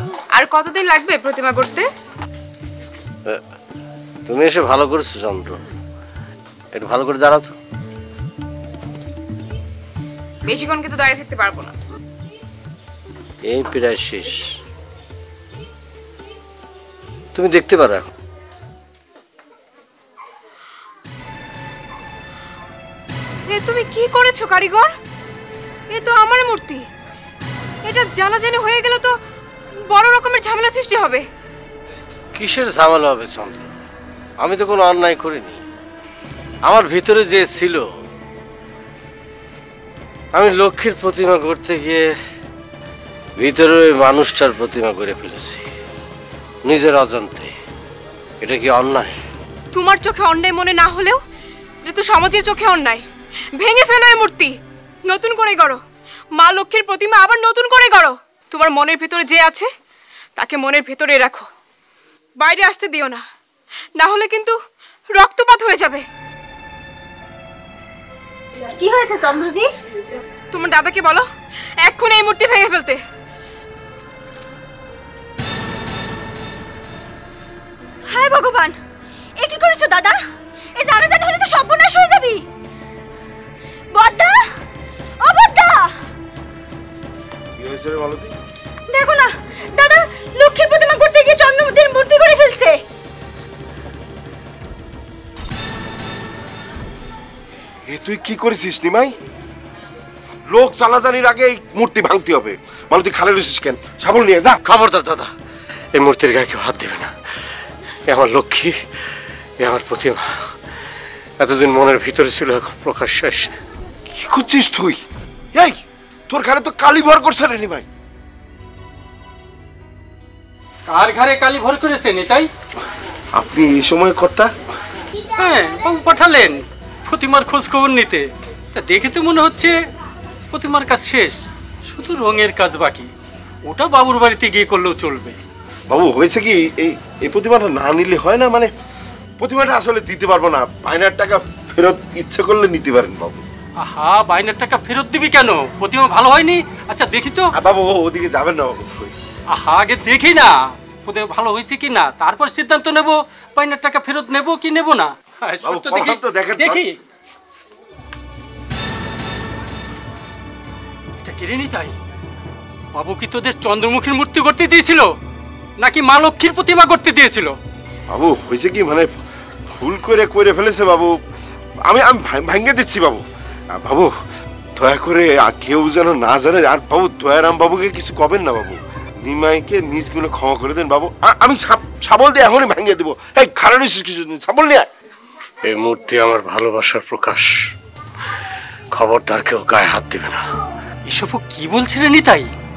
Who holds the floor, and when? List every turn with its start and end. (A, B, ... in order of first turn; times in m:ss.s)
0:00.3-0:01.9 A
0:04.3-0:05.6 B
0:06.7-0:07.5 B
0:10.5-0:11.7 A
0:13.5-0:14.4 B
0:17.3-0:18.0 B
0:23.5-0:24.9 A
0:25.9-0:26.8 A
0:27.8-0:29.1 A
0:29.9-0:31.2 A
0:32.4-0:33.6 B
0:34.4-0:35.6 B
0:36.6-0:37.8 B
0:40.3-0:42.0 B
0:43.4-0:45.6 B
0:46.7-0:47.5 B
0:48.4-0:49.2 B
0:49.7-0:51.2 A
0:51.8-0:54.5 A
0:55.1-0:55.8 A
0:56.4-0:59.7 A
1:00.4-1:01.5 A
1:02.4-1:03.2 A
1:04.0-1:04.6 A
1:05.1-1:06.0 A
1:08.6-1:09.7 C
1:10.5-1:11.2 A
1:11.8-1:13.0 A
1:18.1-1:18.8 C
1:19.4-1:20.2 C
1:20.8-1:22.4 C
1:23.9-1:24.4 C
1:25.2-1:25.9 C
1:27.6-1:28.3 D
1:28.9-1:32.8 C
1:37.9-1:39.1 D
1:40.5-1:44.6 D
1:44.6-1:45.3 B
1:45.9-1:47.1 B
1:48.1-1:48.8 B
1:49.6-1:50.4 B
1:51.4-1:53.5 B
1:54.1-1:55.0 D
1:56.3-1:57.8 D
2:00.9-2:02.5 E
2:03.3-2:04.5 D
2:05.4-2:09.7 E
2:10.5-2:13.1 E
2:13.7-2:15.4 E
2:15.9-2:18.7 D
2:19.4-2:23.4 D
2:23.8-2:27.5 E
2:27.6-2:29.1 D
2:29.5-2:36.9 E
2:35.6-2:36.8 D
2:41.2-2:42.0 E
2:42.9-2:45.1 E
2:45.8-2:47.6 E
2:48.1-2:49.1 D
2:49.8-2:51.1 D
2:51.8-2:54.1 D
2:54.8-3:04.9 D
3:05.6-3:07.5 B
3:08.9-3:10.4 B
3:11.1-3:12.5 E